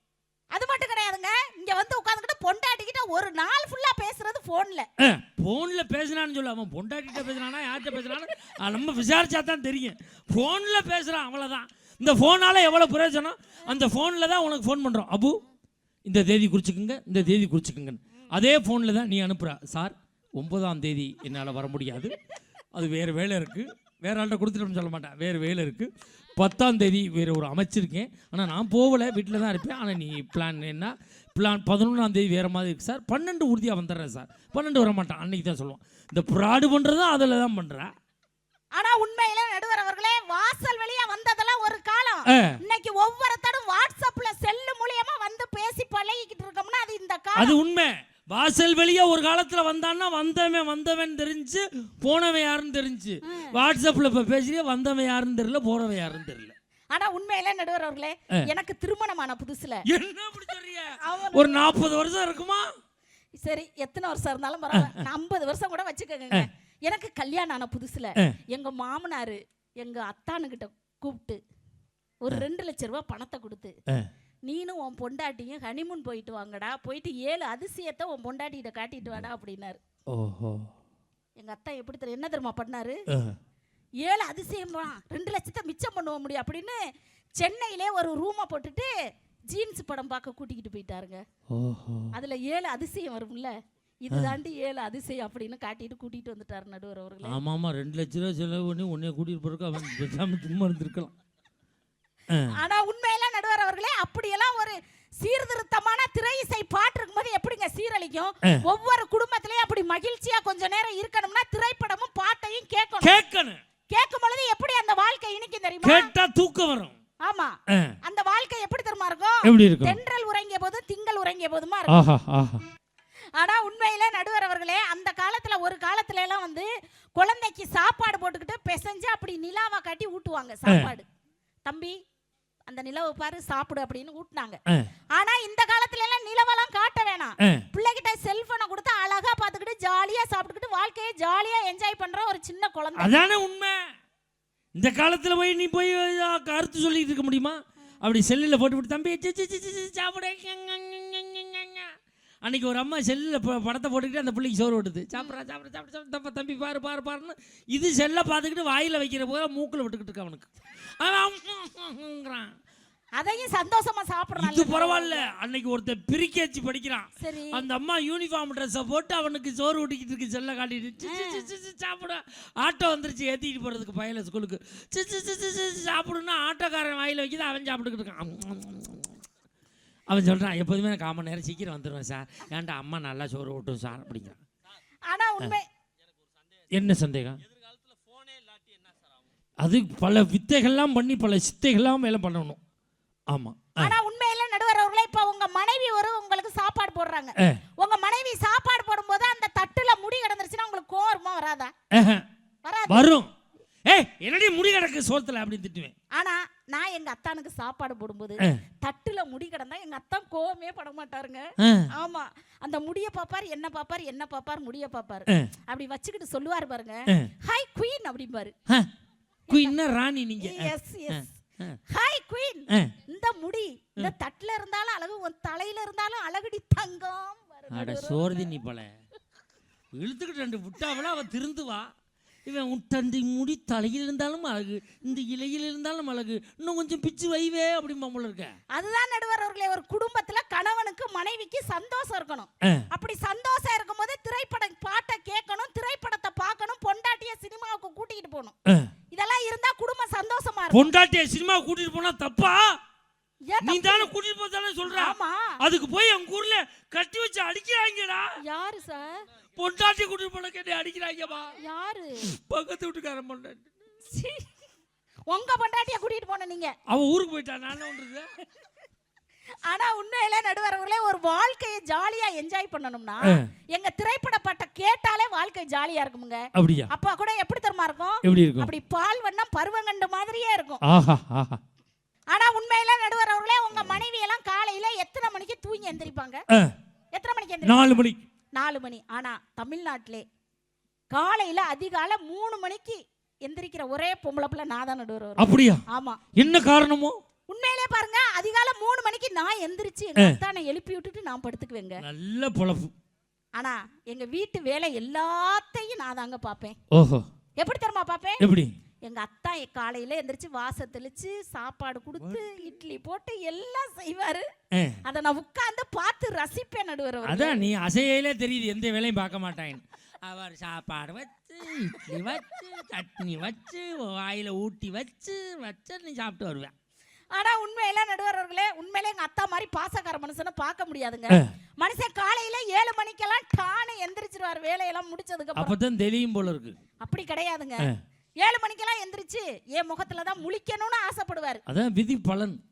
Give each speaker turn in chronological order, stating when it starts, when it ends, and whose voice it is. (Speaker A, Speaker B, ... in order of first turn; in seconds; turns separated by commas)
Speaker A: 0.5-4.9, Speaker B: 5.0-15.4, Speaker B: 16.1-22.2, Speaker B: 22.7-37.9, Speaker A: 38.8-47.5, Speaker B: 47.4-56.5, Speaker A: 53.2-53.5, Speaker A: 56.9-59.8, Speaker B: 59.9-62.7, Speaker A: 61.0-61.6, Speaker A: 63.4-71.4, Speaker B: 64.7-65.0, Speaker A: 72.2-73.7, Speaker A: 74.5-79.8, Speaker B: 80.1-80.7, Speaker A: 81.4-83.0, Speaker A: 84.0-86.8, Speaker A: 87.4-88.9, Speaker A: 89.5-91.2, Speaker B: 91.5-92.1, Speaker A: 92.1-97.4, Speaker B: 97.2-101.1, Speaker A: 102.5-113.2, Speaker B: 113.0-113.6, Speaker A: 113.9-116.1, Speaker B: 115.8-117.0, Speaker A: 117.2-122.0, Speaker B: 119.4-120.0, Speaker B: 121.9-122.6, Speaker A: 123.3-131.1, Speaker A: 131.6-132.0, Speaker A: 132.7-134.6, Speaker A: 135.2-143.1, Speaker B: 143.0-143.8, Speaker B: 144.8-151.9, Speaker B: 152.4-160.5, Speaker B: 161.0-162.5, Speaker A: 163.2-165.2, Speaker B: 164.4-179.2, Speaker A: 167.2-167.6, Speaker A: 171.0-171.5, Speaker B: 180.1-184.4, Speaker A: 185.1-185.6, Speaker B: 186.7-187.4, Speaker B: 189.6-192.6, Speaker B: 193.3-193.9, Speaker A: 193.8-201.7, Speaker B: 201.9-202.2, Speaker A: 202.6-203.1, Speaker B: 202.9-203.3, Speaker B: 203.9-205.9, Speaker A: 206.1-218.5, Speaker B: 211.6-211.9, Speaker A: 219.5-219.7, Speaker B: 219.5-221.8, Speaker A: 220.4-221.3, Speaker A: 221.9-228.5, Speaker B: 227.7-228.9, Speaker B: 229.9-231.9, Speaker B: 232.4-238.5, Speaker A: 238.7-248.5, Speaker A: 249.1-250.9, Speaker B: 250.7-252.8, Speaker A: 253.5-254.1, Speaker B: 253.6-258.3, Speaker A: 254.9-255.6, Speaker A: 258.4-259.2, Speaker B: 259.6-261.5, Speaker A: 261.6-262.3, Speaker B: 262.2-263.6, Speaker A: 264.1-264.5, Speaker A: 265.3-266.7, Speaker B: 266.9-268.3, Speaker A: 269.7-280.8, Speaker B: 276.6-276.9, Speaker B: 278.2-278.7, Speaker B: 280.8-281.6, Speaker A: 282.3-286.4, Speaker A: 287.1-288.0, Speaker B: 287.6-288.2, Speaker A: 288.5-290.2, Speaker A: 291.1-296.2, Speaker B: 295.4-295.8, Speaker B: 296.3-297.2, Speaker A: 297.5-302.0, Speaker B: 302.0-302.9, Speaker A: 303.6-306.8, Speaker B: 306.9-307.2, Speaker A: 307.6-308.4, Speaker B: 308.4-308.7, Speaker A: 309.0-314.4, Speaker A: 315.0-317.6, Speaker B: 317.2-326.7, Speaker A: 327.3-335.8, Speaker B: 335.6-336.8, Speaker A: 337.0-337.9, Speaker A: 338.4-341.6, Speaker B: 341.7-342.6